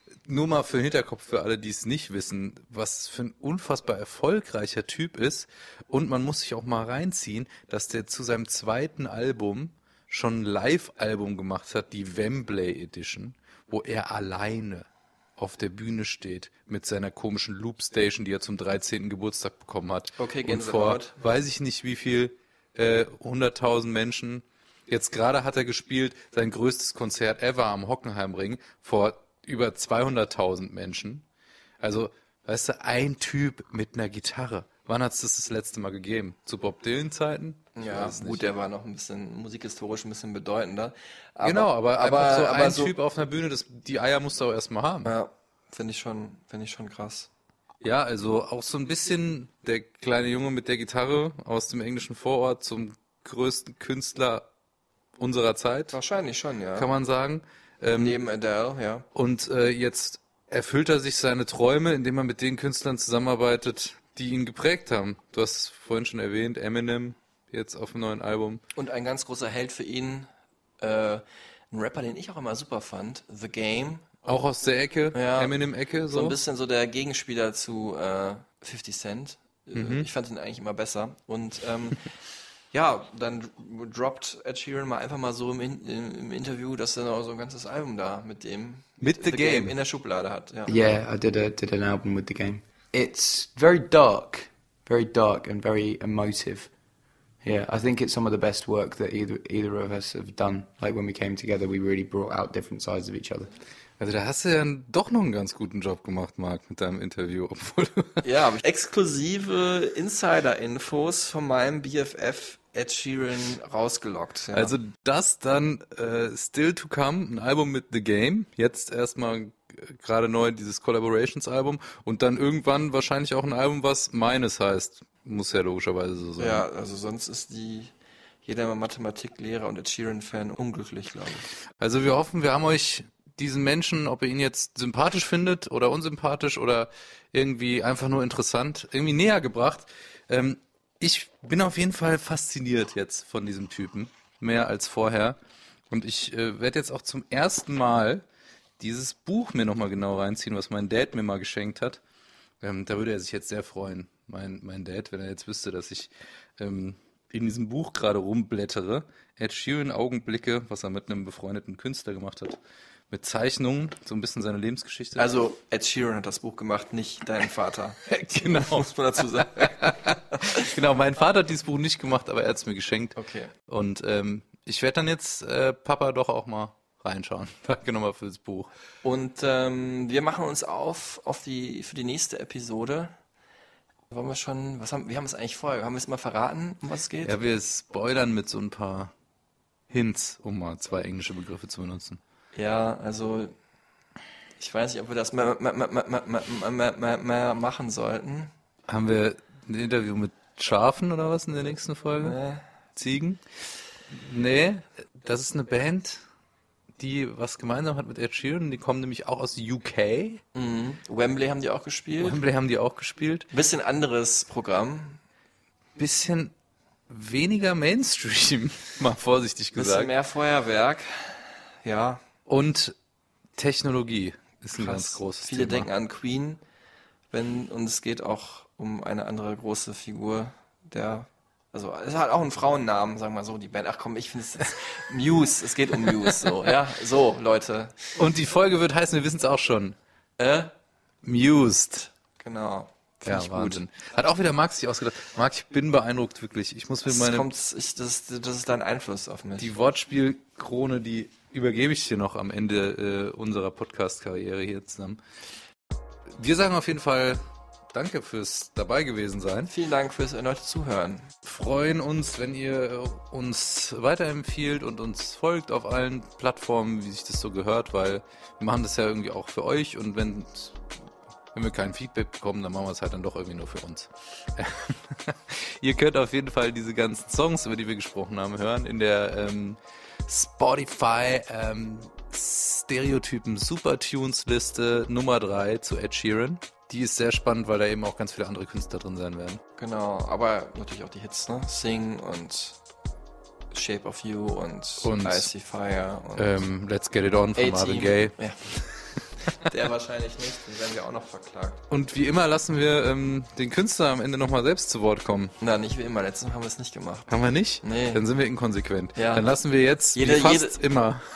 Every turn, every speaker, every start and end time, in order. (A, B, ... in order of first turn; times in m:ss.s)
0:00.2-0:31.2 A
0:20.2-0:21.1 B
0:31.8-0:38.4 A
0:37.8-0:42.9 B
0:41.4-0:45.1 A
0:45.0-0:47.3 B
0:47.8-0:54.4 A
0:55.2-0:56.0 A
0:55.9-0:56.9 B
0:56.8-0:58.2 A
0:57.9-0:59.0 B
0:59.1-1:08.6 A
1:08.8-1:10.3 B
1:10.8-1:14.1 B
1:14.2-1:16.4 A
1:15.1-1:15.5 B
1:16.1-1:22.0 B
1:19.7-1:20.0 A
1:22.7-1:30.7 B
1:29.0-1:29.7 A
1:30.7-1:36.7 C
1:37.4-1:43.5 C
1:44.0-1:48.2 A
1:48.2-1:54.7 B
1:54.5-2:06.6 A
2:06.4-2:07.9 B
2:08.4-2:11.5 B
2:11.8-2:25.4 A
2:25.9-2:28.2 A
2:28.8-2:32.0 A
2:32.6-2:42.6 A
2:43.1-2:45.3 A
2:45.2-2:48.0 B
2:48.0-2:53.2 A
2:48.5-2:50.7 B
2:53.2-2:53.5 B
2:53.7-2:58.7 A
2:59.0-3:03.1 B
3:04.1-3:07.3 B
3:07.2-3:09.1 A
3:09.9-3:12.2 A
3:12.5-3:13.5 B
3:14.6-3:18.5 B
3:18.9-3:22.4 A
3:22.2-3:22.6 B
3:23.0-3:23.4 A
3:24.1-3:26.2 A
3:27.0-3:30.4 A
3:30.5-3:32.4 B
3:32.2-3:33.5 A
3:33.5-3:35.2 B
3:36.0-3:36.5 A
3:37.1-3:40.1 A
3:39.7-3:42.2 B
3:42.5-3:42.9 A
3:43.6-3:45.9 A
3:44.8-3:46.6 B
3:47.3-3:58.1 B
3:58.2-4:00.0 A
4:00.4-4:00.7 B
4:01.2-4:02.1 A
4:02.4-4:03.8 B
4:03.2-4:07.4 A
4:07.1-4:09.7 B
4:09.6-4:15.2 A
4:16.4-4:17.4 A
4:17.9-4:19.7 A
4:19.7-4:21.3 B
4:21.4-4:30.7 A
4:31.5-4:49.6 A
4:49.8-4:52.8 B
4:53.7-4:56.5 B
4:55.0-4:55.5 A
4:56.4-4:59.0 A
4:57.6-4:58.6 B
4:59.5-5:01.8 B
5:01.9-5:05.5 A
5:05.6-5:08.2 B
5:07.3-5:11.2 A
5:09.2-5:09.4 B
5:10.1-5:10.8 B